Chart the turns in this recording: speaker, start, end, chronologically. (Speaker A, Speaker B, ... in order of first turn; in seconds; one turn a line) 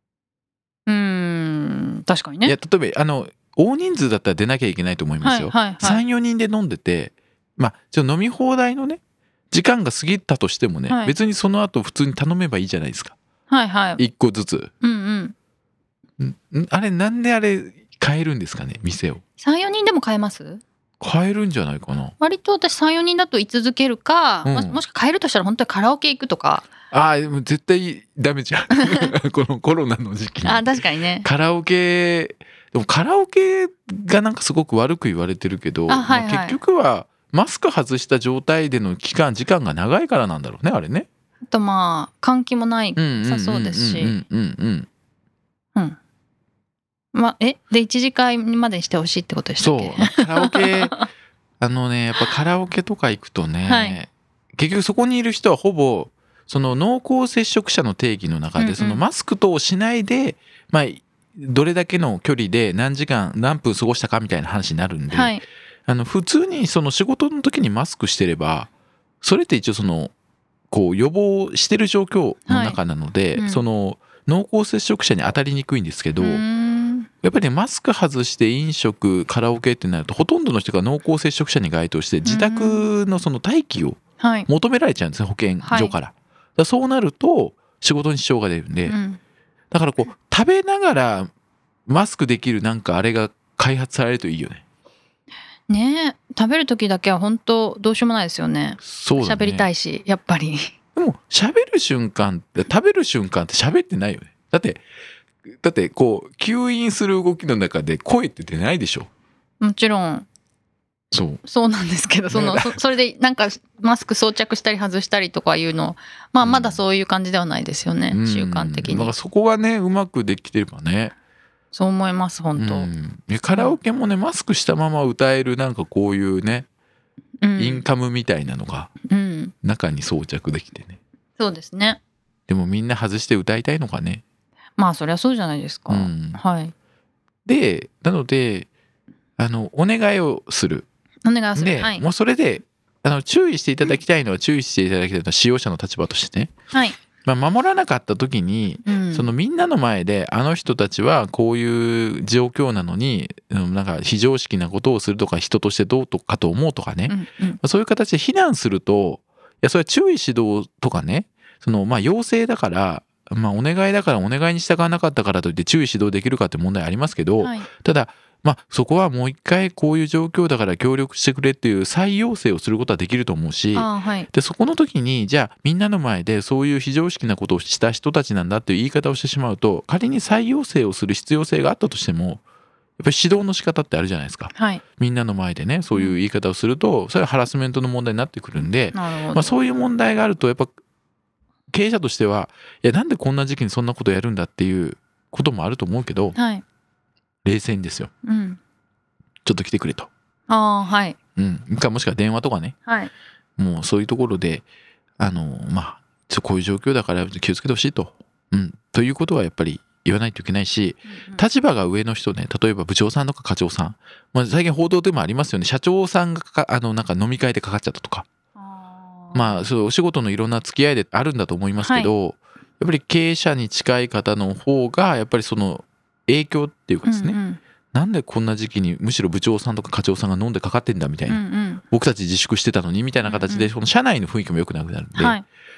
Speaker A: 0.9-2.5
Speaker B: 2.4-9.0
Speaker A: 5.2-6.0
Speaker B: 9.5-13.2
Speaker A: 10.9-11.2
Speaker A: 13.5-14.0
Speaker B: 14.0-14.7
Speaker A: 14.8-15.3
Speaker B: 16.2-19.2
Speaker A: 19.4-20.6
Speaker B: 21.0-22.1
Speaker A: 22.2-26.7
Speaker B: 24.4-24.8
Speaker B: 26.9-41.1
Speaker A: 28.7-29.1
Speaker A: 30.4-31.3
Speaker A: 35.9-36.6
Speaker A: 41.5-44.2
Speaker B: 43.0-44.9
Speaker A: 47.1-51.0
Speaker B: 49.6-51.1
Speaker B: 51.6-68.7
Speaker A: 53.7-54.0
Speaker A: 58.6-59.0
Speaker A: 65.1-65.4
Speaker B: 69.2-70.1
Speaker B: 70.7-76.4
Speaker A: 72.5-72.8
Speaker A: 73.3-73.6
Speaker A: 76.2-77.1
Speaker B: 77.2-88.9
Speaker A: 82.2-82.9
Speaker A: 84.2-84.5
Speaker A: 85.6-86.0
Speaker A: 88.9-89.2
Speaker B: 89.7-91.3
Speaker B: 91.9-94.6
Speaker A: 95.7-100.7
Speaker B: 98.8-99.7
Speaker B: 100.9-104.8
Speaker B: 105.5-109.1
Speaker A: 109.6-110.2
Speaker B: 111.1-111.4
Speaker A: 111.5-119.1
Speaker B: 112.3-112.8
Speaker B: 116.4-116.8
Speaker B: 118.1-121.1
Speaker A: 121.7-122.9
Speaker B: 122.5-126.7
Speaker A: 123.5-123.8
Speaker A: 127.4-127.8
Speaker B: 127.6-128.9
Speaker A: 129.1-129.5
Speaker B: 129.6-131.0
Speaker A: 131.4-132.0
Speaker B: 132.5-134.2
Speaker A: 134.8-136.7
Speaker B: 135.9-136.4
Speaker B: 137.4-138.7
Speaker B: 139.4-140.9
Speaker A: 141.2-142.1
Speaker B: 141.6-146.5
Speaker A: 146.7-147.0
Speaker B: 147.2-182.4
Speaker A: 148.8-149.3
Speaker A: 157.1-157.6
Speaker A: 167.4-167.7
Speaker A: 173.7-174.3
Speaker B: 183.0-190.7
Speaker A: 184.5-184.8
Speaker A: 185.9-186.2
Speaker A: 188.9-189.5
Speaker B: 191.7-196.3
Speaker A: 196.3-196.6
Speaker B: 197.4-198.1
Speaker A: 198.2-198.6
Speaker B: 199.4-200.1
Speaker A: 200.5-201.2
Speaker B: 201.3-202.8
Speaker A: 202.8-203.1
Speaker B: 203.6-204.6
Speaker B: 205.2-218.2
Speaker A: 211.1-211.4
Speaker A: 218.6-219.7
Speaker B: 219.3-227.4
Speaker A: 221.8-222.1
Speaker A: 227.1-227.6
Speaker B: 227.9-235.4
Speaker A: 231.3-231.8
Speaker A: 233.2-233.7
Speaker A: 235.2-235.4